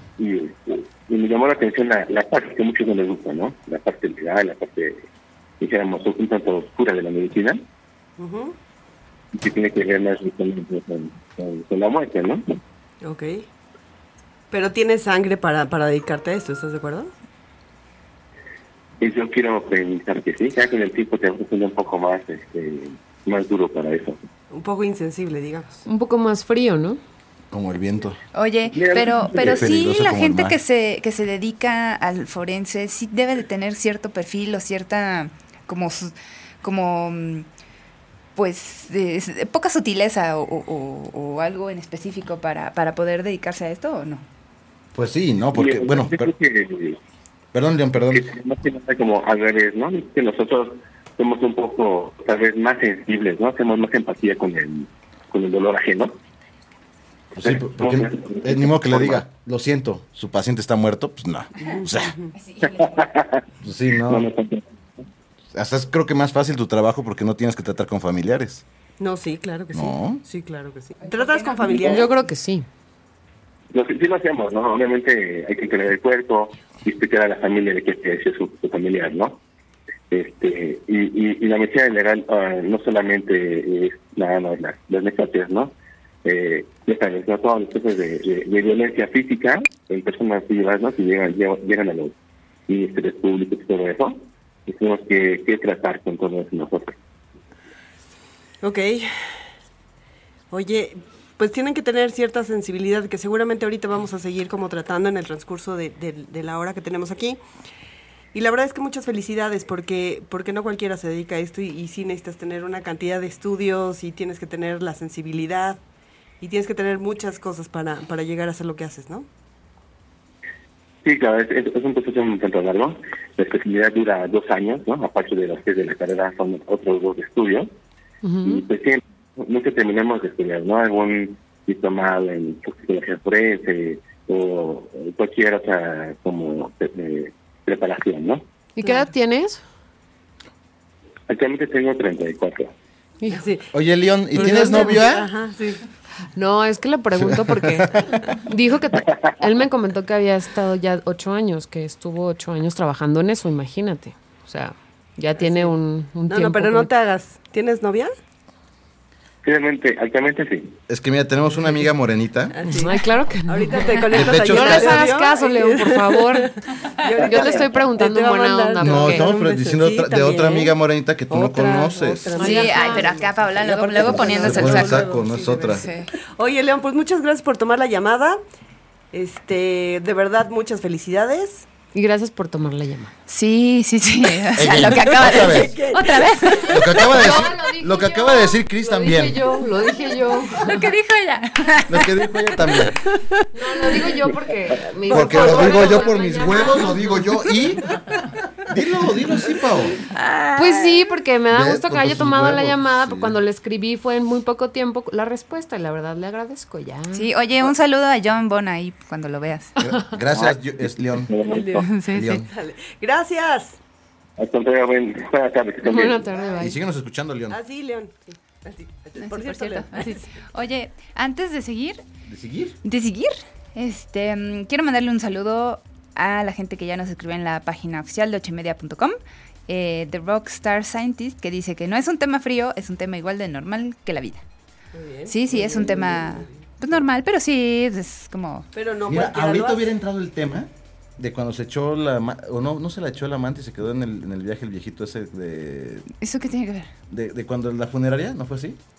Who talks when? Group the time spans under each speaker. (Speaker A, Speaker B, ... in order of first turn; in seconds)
Speaker A: 0.2-5.1, 5.6-7.6, 9.3-12.4, 19.0-24.2, 28.7-29.7, 45.5-47.0, 48.1-56.2, 57.4-59.2, 62.6-63.4, 64.0-64.7, 73.7-79.4, 80.1-85.7, 86.2-92.1, 92.7-97.0, 121.0-127.7, 128.4-138.4, 141.3-142.7, 159.4-160.8, 210.3-211.9, 214.4-216.3
Speaker B: 8.2-8.6, 13.0-13.4, 14.5-17.1, 24.5-25.8, 61.6-62.3, 69.0-72.2, 98.6-99.1, 100.5-107.4, 108.3-115.8, 116.4-119.3, 143.3-143.7, 144.4-145.8, 155.4-155.7, 156.3-158.1, 162.6-170.7, 171.3-178.4, 179.1-181.7, 185.1-187.0, 195.1-196.2, 211.4-213.8, 217.5-220.3, 234.9-237.0, 238.7-239.9
Speaker C: 25.9-27.0, 71.6-72.7, 128.2-128.7, 138.8-139.6, 143.2-143.5, 144.4-145.0, 146.3-156.9, 162.7-166.6, 167.2-169.3, 172.4-173.2, 181.9-183.1, 187.0-190.9, 193.5-197.3, 200.6-207.3, 215.8-216.8
Speaker D: 27.5-28.2, 29.4-30.6, 45.0-46.3, 47.5-48.3, 57.4-62.1, 63.6-64.3, 65.5-68.6, 69.7-70.2, 143.7-145.3, 147.2-148.1, 160.9-162.6, 164.1-165.1, 168.8-172.4, 174.0-175.9, 184.6-185.8, 186.7-189.6, 191.9-193.0, 195.1-198.0, 198.7-200.0, 201.5-203.4, 209.8-211.4, 212.1-212.5, 216.6-217.6, 222.3-222.8, 239.1-246.1, 247.1-248.8
Speaker E: 28.3-37.5, 38.4-44.2, 62.4-63.0, 71.1-71.8, 172.4-175.2, 175.7-176.1, 183.3-187.1, 190.5-192.8, 200.1-201.0, 207.1-209.9, 211.8-212.4, 219.2-222.0, 222.8-234.4, 235.3-238.7, 246.2-246.9